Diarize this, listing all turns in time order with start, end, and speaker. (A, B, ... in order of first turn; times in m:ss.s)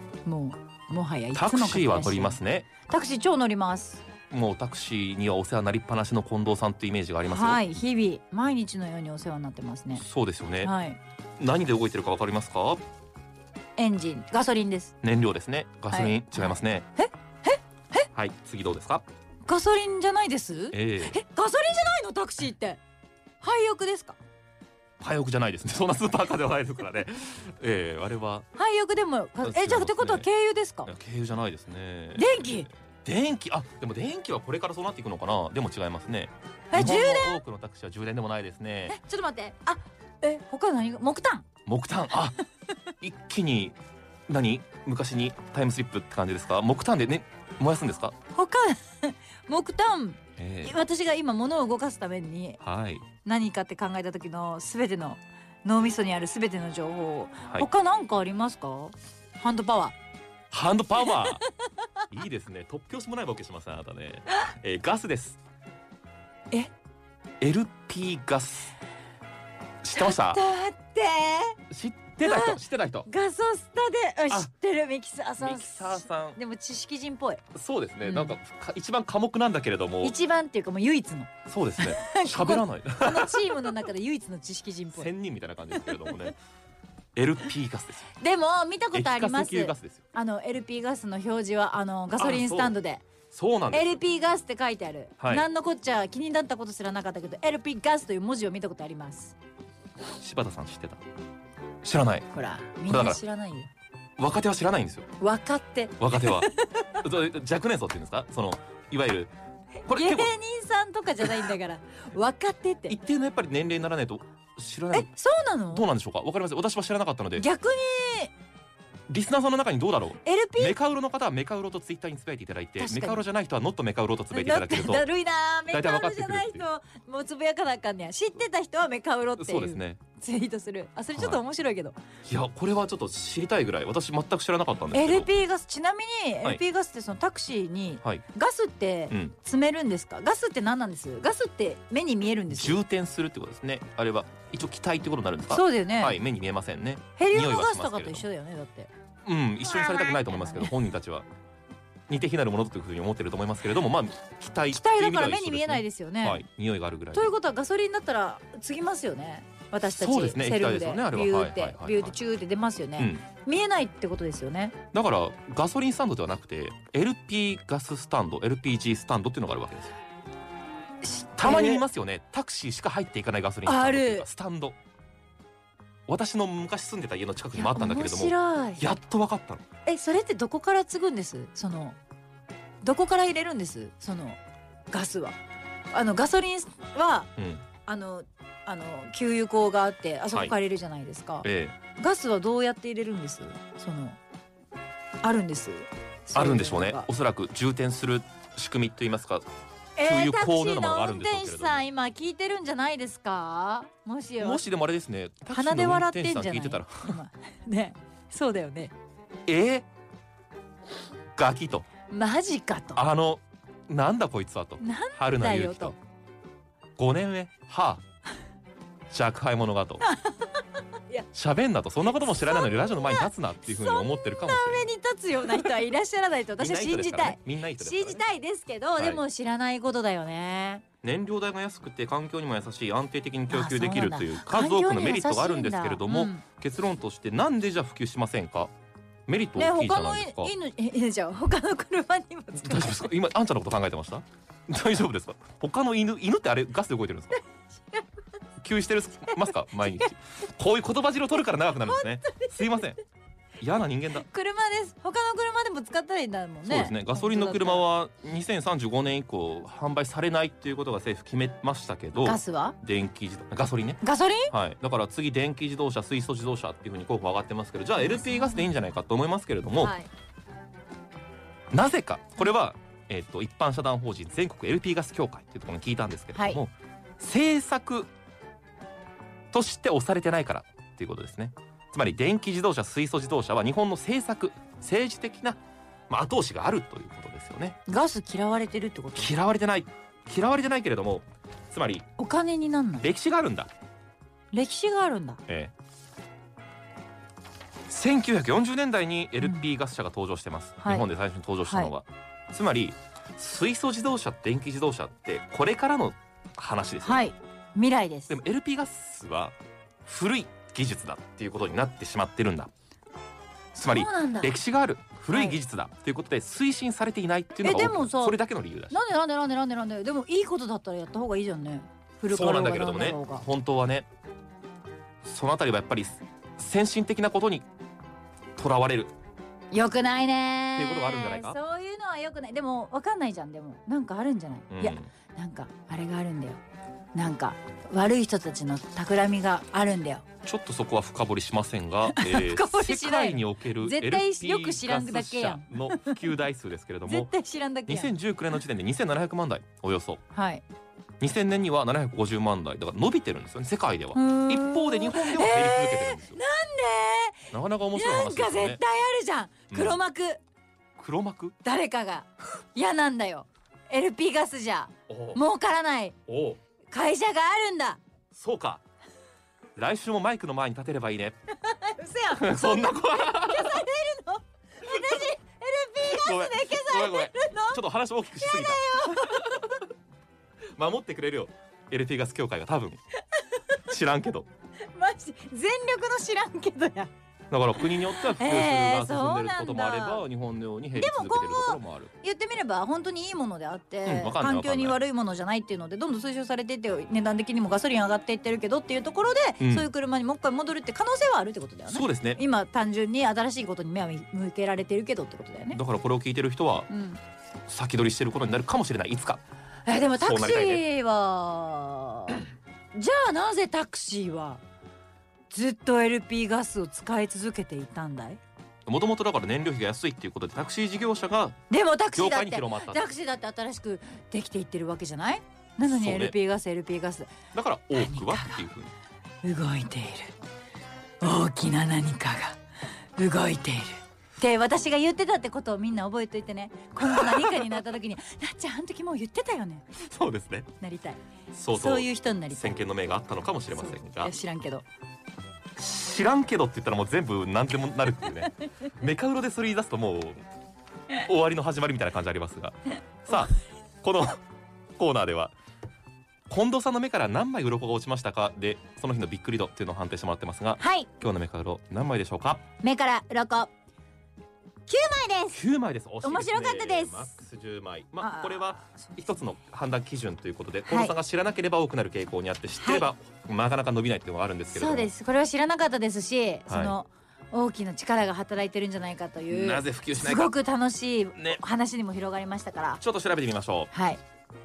0:00.2-0:04.0 A
0:01.3-0:02.7 B
0:04.3-0:07.6 B
0:07.2-0:10.0 A
0:10.0-0:10.7 B
0:10.6-0:11.0 A
0:11.4-0:12.8 B
0:13.8-0:14.9 A
0:15.0-0:16.9 B
0:15.9-0:18.1 A
0:18.1-0:19.1 B
0:19.5-0:22.8 A
0:20.7-0:21.2 B
0:23.4-0:24.2 A
0:25.0-0:28.5 B
0:28.6-0:30.9 A
0:29.4-0:30.3 B
0:30.9-0:39.0 B
0:32.2-0:32.7 A
0:36.7-0:37.4 A
0:38.9-0:41.5 A
0:41.7-0:42.4 B
0:43.0-0:43.8 B
0:44.3-0:48.2 B
0:48.3-0:52.6 A
0:50.4-0:50.8 B
0:52.6-0:53.1 B
0:53.2-1:00.0 A
1:00.5-1:01.4 B
1:01.0-1:01.5 A
1:02.1-1:05.4 B
1:07.4-1:08.7 B
1:09.8-1:10.4 B
1:09.9-1:11.6 A
1:11.7-1:13.1 B
1:12.2-1:17.4 A
1:15.4-1:16.4 B
1:17.5-1:20.2 B
1:18.0-1:18.4 A
1:20.0-1:25.1 A
1:21.5-1:23.4 B
1:25.0-1:26.4 B
1:27.2-1:28.1 B
1:28.2-1:33.1 A
1:28.9-1:30.0 B
1:32.2-1:32.7 B
1:33.3-1:34.0 B
1:33.7-1:39.4 A
1:35.2-1:35.4 B
1:40.2-1:41.0 B
1:41.8-1:42.3 B
1:42.3-1:43.7 A
1:42.9-1:43.2 B
1:44.2-1:45.1 B
1:45.2-1:47.0 A
1:46.0-1:49.3 B
1:49.9-1:53.0 A
1:49.9-1:50.3 B
1:52.9-1:55.1 B
1:54.9-1:55.9 A
1:55.7-1:57.4 B
1:57.4-1:58.3 A
1:59.1-2:05.1 B
2:00.2-2:00.8 A
2:02.8-2:03.2 A
2:04.3-2:12.0 A
2:05.7-2:06.6 B
2:09.4-2:10.0 B
2:11.2-2:11.4 B
2:12.3-2:15.3 B
2:14.9-2:22.8 A
2:19.1-2:19.4 B
2:22.5-2:28.3 B
2:25.5-2:26.2 A
2:27.2-2:28.9 A
2:29.2-2:31.3 B
2:29.6-2:30.7 A
2:32.1-2:37.3 B
2:34.7-2:36.4 A
2:37.1-2:44.8 A
2:39.9-2:42.2 B
2:43.0-2:43.2 B
2:44.9-2:49.9 B
2:51.0-2:51.8 A
2:51.4-2:54.8 B
2:53.6-2:54.3 A
2:56.1-2:59.6 B
2:57.6-2:58.8 A
2:59.9-3:02.0 A
3:02.8-3:04.4 A
3:04.9-3:05.4 A
3:05.9-3:07.3 A
3:07.4-3:07.7 B
3:07.8-3:14.2 A
3:11.4-3:11.8 B
3:15.2-3:17.1 A
3:16.3-3:19.5 B
3:20.0-3:24.6 A
3:20.0-3:21.9 B
3:24.4-3:27.2 B
3:25.5-3:28.9 A
3:29.5-3:29.9 B
3:31.4-3:31.9 B
3:32.1-3:33.0 A
3:33.0-3:36.0 B
3:34.8-3:36.0 A
3:37.0-3:38.0 B
3:39.1-3:40.0 B
3:40.0-3:41.3 A
3:41.3-3:44.9 B
3:42.1-3:50.8 A
3:46.6-3:48.2 B
3:51.0-3:58.7 B
3:53.5-3:56.4 A
3:59.3-4:00.6 B
3:59.6-4:03.1 A
4:02.6-4:07.4 B
4:08.6-4:13.0 B
4:09.3-4:10.1 A
4:11.7-4:12.9 A
4:13.6-4:14.2 B
4:14.1-4:17.8 A
4:16.7-4:30.0 B
4:22.2-4:22.8 A
4:24.0-4:24.5 A
4:28.0-4:28.7 A
4:29.8-4:30.1 A
4:31.7-4:38.1 B
4:36.3-4:36.6 A
4:39.5-4:47.8 B
4:47.9-4:49.3 A
4:49.2-4:52.1 B
4:52.2-4:53.1 A
4:53.0-4:53.7 B
4:54.5-4:55.4 A
4:55.5-4:55.7 B
4:57.9-5:07.3 B
5:01.7-5:01.9 A
5:07.0-5:08.4 A
5:08.3-5:12.7 B
5:13.8-5:19.0 B
5:13.9-5:14.5 A
5:15.3-5:15.6 A
5:17.6-5:18.4 A
5:18.9-5:23.4 A
5:22.3-5:24.1 B
5:25.2-5:27.7 B
5:28.6-5:29.1 B
5:29.7-5:36.6 A
5:30.8-5:31.6 B
5:34.7-5:35.1 B
5:37.1-5:40.2 A
5:40.4-5:47.3 B
5:42.0-5:46.2 A
5:47.1-5:48.1 A
5:47.9-5:50.2 B
5:50.3-5:50.6 A
5:51.2-5:56.4 B
5:54.1-6:00.4 A
5:57.5-5:58.8 B
5:59.7-6:00.0 B
6:01.0-6:01.6 B
6:01.6-6:06.2 A
6:05.1-6:05.4 B
6:06.3-6:06.6 B
6:06.9-6:08.0 A
6:08.3-6:08.8 B
6:09.8-6:11.4 B
6:11.5-6:17.8 A
6:12.3-6:13.8 B
6:14.9-6:15.2 B
6:16.0-6:19.8 B
6:18.4-6:19.7 A
6:20.8-6:23.0 B
6:23.9-6:24.5 B
6:24.9-6:27.1 A
6:27.5-6:32.1 B
6:27.8-6:30.3 A
6:31.0-6:45.8 A
6:34.0-6:35.0 B
6:39.6-6:39.9 B
6:41.9-6:42.4 B
6:45.7-6:46.9 B
6:46.9-6:47.2 A
6:47.7-6:49.4 B
6:49.9-6:54.6 A
6:50.2-6:50.8 B
6:55.5-6:58.4 A
6:58.9-7:01.6 B
7:01.7-7:07.3 A
7:02.1-7:03.0 B
7:05.8-7:06.4 B
7:07.5-7:08.9 B
7:07.9-7:08.7 A
7:09.4-7:10.3 A
7:11.2-7:12.6 A
7:13.2-7:19.9 A
7:17.0-7:17.8 B
7:20.0-7:20.7 B
7:20.8-7:22.8 A
7:21.5-7:24.3 B
7:23.7-7:24.9 A
7:25.8-7:30.4 B
7:31.1-7:34.4 B
7:35.0-7:35.5 B
7:36.5-7:42.6 B
7:40.8-7:41.1 A
7:42.8-7:43.7 A
7:44.9-7:45.6 A
7:45.5-7:55.1 B
7:46.2-7:47.4 A
7:48.2-7:49.0 A
7:50.9-7:51.2 A
7:52.8-7:53.1 A
7:54.7-8:03.0 A
7:56.7-7:56.9 B
7:59.5-8:00.5 B
8:03.0-8:03.9 B
8:03.9-8:04.2 A